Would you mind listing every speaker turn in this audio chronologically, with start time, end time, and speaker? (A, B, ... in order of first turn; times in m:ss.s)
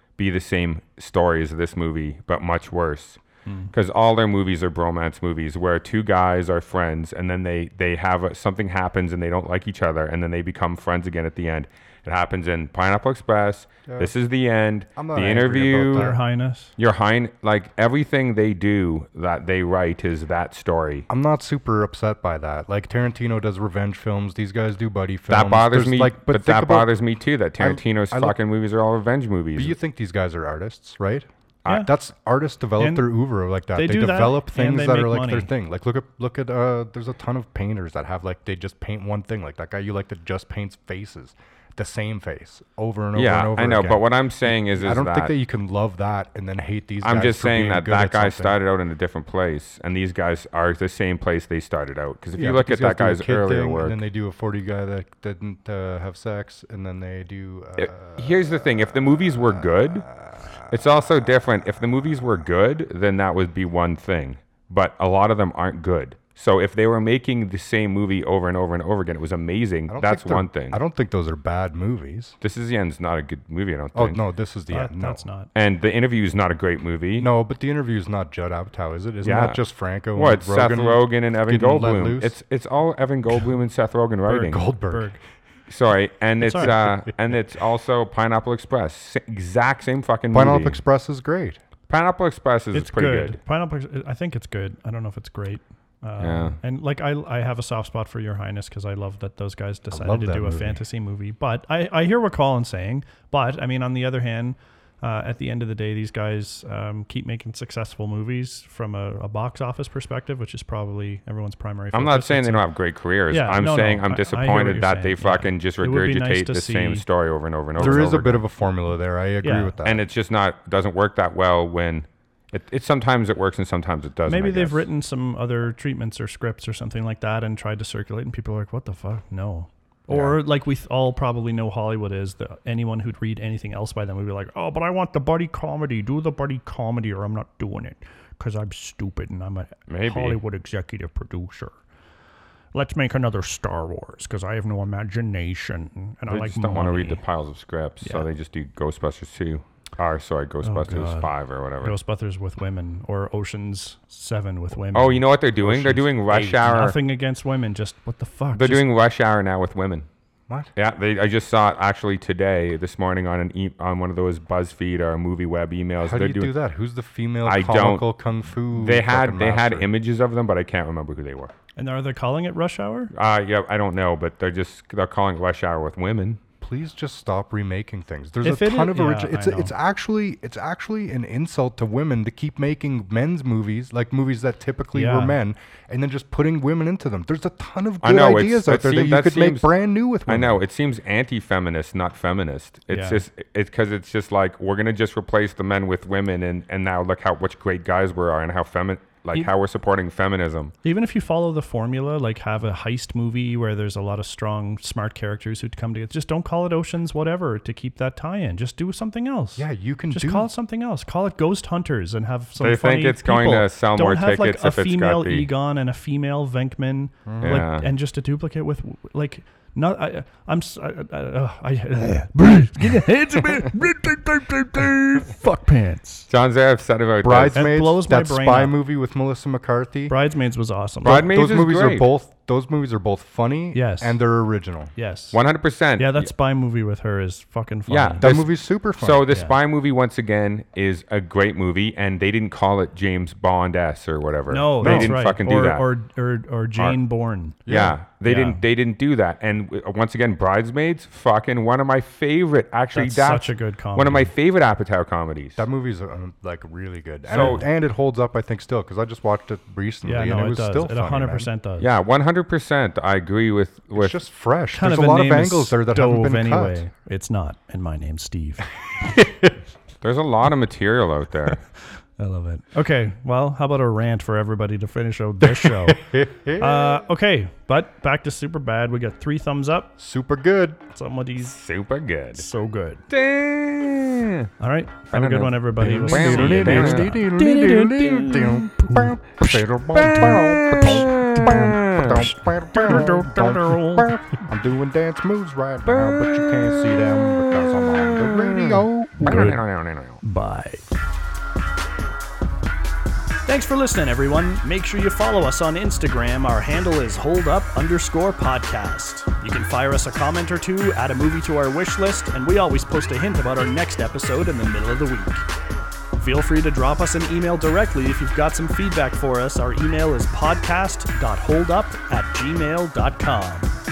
0:00.2-0:03.2 A
0:03.5-0:03.7 B
0:03.7-0:16.1 A
0:13.9-0:14.1 C
0:15.0-0:16.2 C
0:15.9-0:16.7 B
0:16.8-0:21.1 A
0:21.1-0:26.9 C
0:25.3-0:29.8 A
0:27.6-0:28.4 C
0:29.6-0:44.0 C
0:32.8-0:33.1 B
0:33.8-0:35.5 B
0:43.2-0:45.3 A
0:44.7-0:48.6 C
0:47.0-0:54.0 A
0:52.4-1:00.8 C
0:57.8-1:00.1 A
1:00.7-1:10.8 A
1:09.9-1:12.4 C
1:12.4-1:14.2 A
1:13.9-1:15.2 C
1:14.7-1:15.5 B
1:15.6-1:17.3 A
1:17.2-1:22.3 C
1:19.2-1:19.6 A
1:20.1-1:24.6 A
1:24.3-1:25.2 C
1:24.9-1:25.2 B
1:25.7-1:30.8 A
1:26.4-1:26.8 B
1:26.6-1:26.9 C
1:30.3-1:31.6 C
1:31.9-1:33.4 A
1:32.7-1:52.7 B
1:36.2-1:36.6 A
1:39.9-1:40.8 C
1:51.9-1:58.4 A
1:53.3-1:57.0 B
1:57.8-2:00.0 C
1:59.4-1:59.8 B
1:59.8-2:04.8 A
2:04.3-2:21.8 B
2:10.1-2:10.4 A
2:19.9-2:20.4 A
2:22.7-2:27.2 B
2:26.3-2:32.0 A
2:30.6-2:31.3 B
2:31.8-2:38.8 B
2:34.9-2:37.0 A
2:38.5-2:40.1 A
2:40.8-2:46.5 A
2:46.0-2:49.9 C
2:47.4-2:48.1 A
2:48.7-2:51.5 A
2:51.8-2:53.1 B
2:53.1-2:56.4 A
2:56.6-3:10.6 C
2:58.4-2:59.7 B
3:04.9-3:05.4 B
3:08.0-3:09.7 A
3:10.3-3:20.7 A
3:12.9-3:13.2 B
3:20.8-3:46.3 B
3:29.6-3:30.5 C
3:32.6-3:35.5 A
3:37.3-3:37.6 C
3:37.4-3:37.9 A
3:46.3-3:47.6 A
3:47.2-3:50.2 C
3:47.5-3:48.7 B
3:50.1-3:51.2 B
3:51.0-3:52.1 A
3:51.1-3:54.9 C
3:53.7-3:54.2 B
3:55.0-3:55.4 B
3:55.3-3:56.3 A
3:56.0-3:58.3 B
3:57.9-4:05.8 A
3:58.2-3:59.3 C
4:04.5-4:07.6 B
4:04.8-4:05.2 C
4:07.7-4:08.0 C
4:07.7-4:15.6 A
4:08.2-4:08.6 B
4:12.9-4:14.3 B
4:15.6-4:21.5 C
4:17.3-4:17.6 A
4:17.3-4:17.7 B
4:20.0-4:21.9 B
4:21.8-4:24.2 A
4:23.9-4:26.9 C
4:24.7-4:28.7 B
4:30.0-4:31.6 A
4:32.2-4:36.0 B
4:35.4-4:37.0 C
4:36.6-4:40.0 B
4:40.0-4:40.8 C
4:40.9-4:41.6 B
4:41.5-4:42.5 A
4:42.4-4:43.0 B
4:43.1-4:44.5 A
4:44.6-4:49.2 B
4:45.1-4:47.2 A
4:45.8-4:59.6 C
4:49.9-4:52.3 A
4:50.8-4:51.7 B
4:52.7-4:54.2 B
4:55.9-5:00.2 A
4:59.2-4:59.6 B
5:00.2-5:00.8 B
5:03.4-5:15.5 B
5:16.1-5:23.7 B